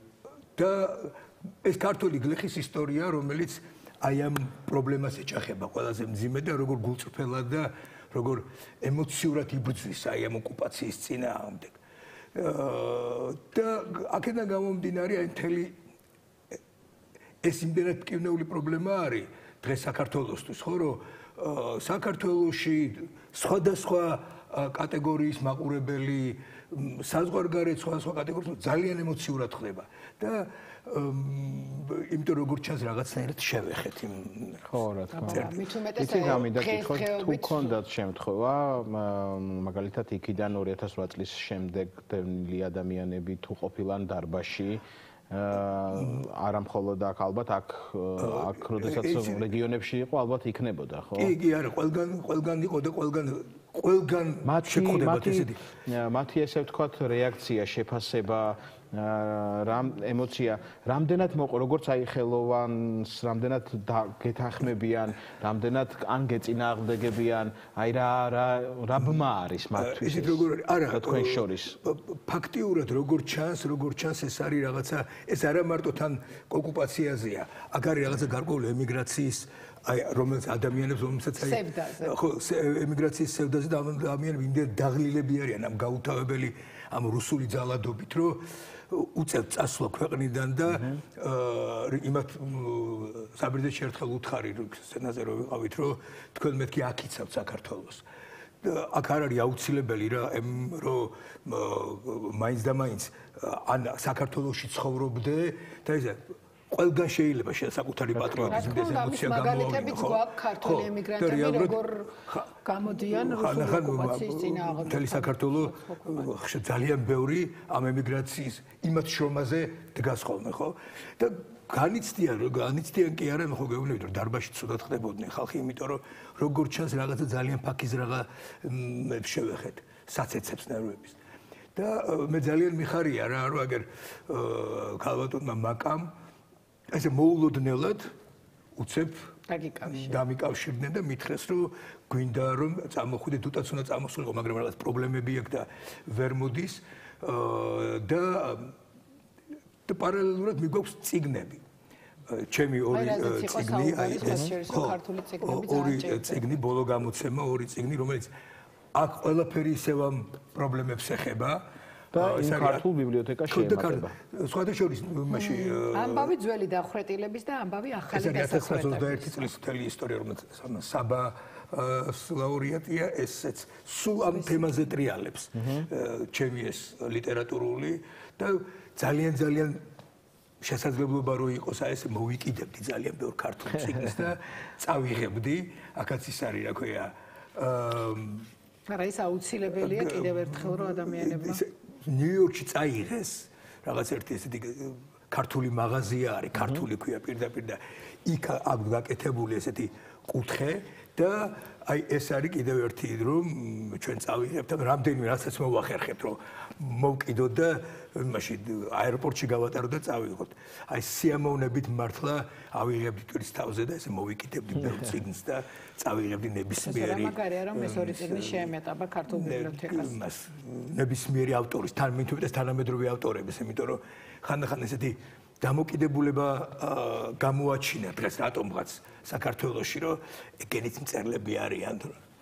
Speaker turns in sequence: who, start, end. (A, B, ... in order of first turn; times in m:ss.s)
0:00.6-0:11.8 A
0:12.3-0:15.8 A
0:17.4-0:34.7 A
0:34.7-0:51.4 B
0:35.1-0:37.8 C
0:35.2-0:35.6 A
0:36.2-0:36.5 A
0:48.2-0:49.5 A
0:51.2-0:55.6 A
0:54.4-1:11.8 B
1:09.0-1:09.2 A
1:09.8-1:38.0 A
1:21.4-1:22.2 C
1:38.6-2:11.2 A
1:48.2-1:48.7 B
1:48.4-1:56.3 C
2:11.8-2:16.1 A
2:16.9-2:18.1 A
2:18.8-2:19.3 A
2:19.5-2:20.2 C
2:19.9-2:28.8 A
2:29.9-2:31.6 A
2:32.3-2:38.3 A
2:32.9-2:36.5 C
2:34.2-2:34.5 B
2:38.9-2:42.8 A
2:42.1-2:44.1 B
2:43.5-2:46.3 A
2:45.3-2:49.6 C
2:48.1-2:59.8 A
2:55.6-2:55.9 B
3:00.6-3:08.5 A
3:08.9-3:11.6 C
3:09.7-3:38.7 A
3:16.6-3:16.8 B
3:36.8-3:40.2 C
3:39.3-3:52.2 A